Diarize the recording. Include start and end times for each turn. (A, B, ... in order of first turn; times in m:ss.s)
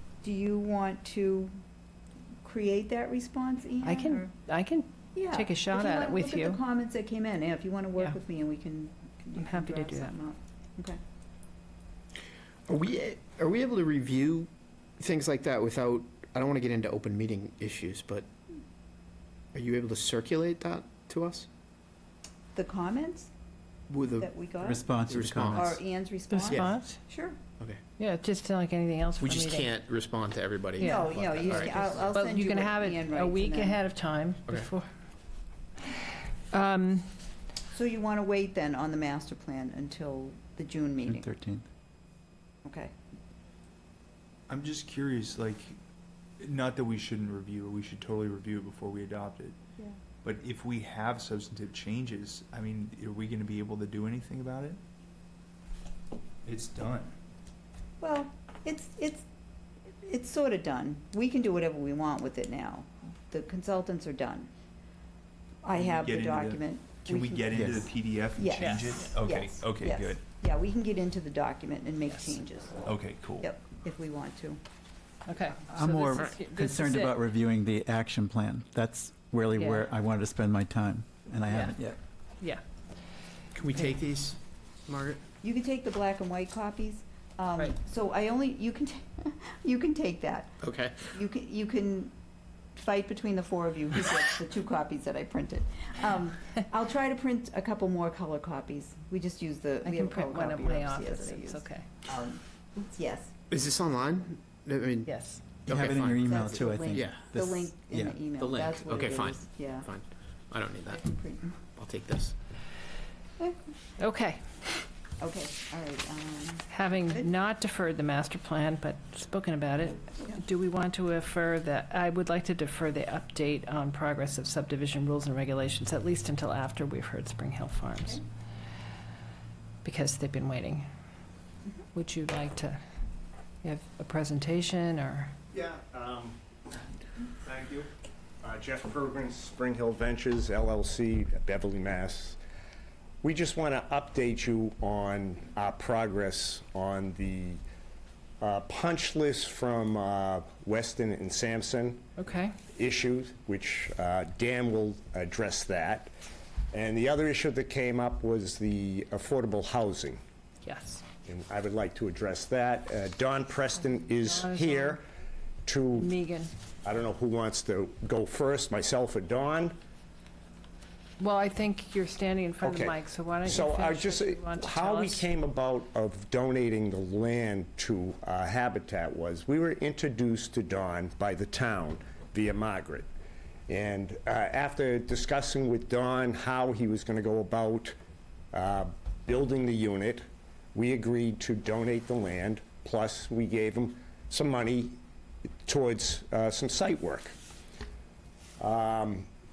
0:00.2-0:01.5 A
0:02.4-0:04.3 A
0:03.8-0:06.6 B
0:05.2-0:11.0 A
0:09.4-0:10.2 B
0:12.7-0:18.3 C
0:19.5-0:21.5 C
0:22.6-0:23.3 A
0:23.9-0:24.3 C
0:24.2-0:24.8 A
0:24.6-0:25.8 D
0:25.1-0:25.8 C
0:25.5-0:27.4 A
0:26.3-0:27.0 B
0:26.4-0:26.7 C
0:28.0-0:29.8 B
0:29.2-0:32.1 C
0:30.8-0:34.9 B
0:30.8-0:33.8 A
0:36.5-0:37.1 B
0:37.7-0:41.3 A
0:41.0-0:41.7 D
0:42.6-0:42.9 A
0:44.5-0:45.8 E
0:46.4-0:49.6 E
0:50.2-0:54.8 E
0:56.4-0:57.1 E
0:58.0-0:59.2 A
1:00.0-1:04.5 A
1:05.6-1:12.8 A
1:05.7-1:10.2 E
1:08.6-1:09.2 B
1:12.1-1:12.4 B
1:12.8-1:13.5 E
1:13.4-1:14.6 A
1:15.3-1:17.2 B
1:15.7-1:22.0 D
1:16.2-1:16.5 C
1:19.6-1:19.9 B
1:21.5-1:21.8 B
1:23.6-1:25.2 C
1:25.4-1:30.6 A
1:30.6-1:31.1 C
1:31.1-1:32.1 A
1:32.8-1:43.3 A
1:39.8-1:41.9 B
1:43.5-1:45.1 C
1:45.1-1:45.4 B
1:45.6-1:46.3 C
1:45.7-1:48.3 D
1:46.2-1:49.9 A
1:46.9-1:47.2 C
1:48.3-1:51.0 C
1:50.9-1:51.5 A
1:51.7-1:52.3 C
1:54.0-1:54.4 B
1:55.2-1:57.3 A
1:56.7-2:08.2 B
2:09.8-2:10.9 B
2:11.9-2:12.8 B
2:13.6-2:15.3 B
2:15.5-2:16.4 F
2:17.4-2:17.9 F
2:18.4-2:22.4 F
2:23.2-2:27.6 F
2:28.4-2:32.0 F
2:32.2-2:32.5 B
2:32.7-2:36.1 F
2:36.7-2:40.2 F
2:40.6-2:41.0 B
2:41.2-2:45.0 F
2:43.8-2:45.0 B
2:45.7-2:46.1 F
2:45.9-2:46.5 B
2:46.8-2:49.8 F
2:51.2-2:55.3 B
2:52.6-3:03.1 F
3:03.7-3:08.0 F
3:08.5-3:15.0 F
3:15.7-3:17.3 F
3:18.6-3:19.3 F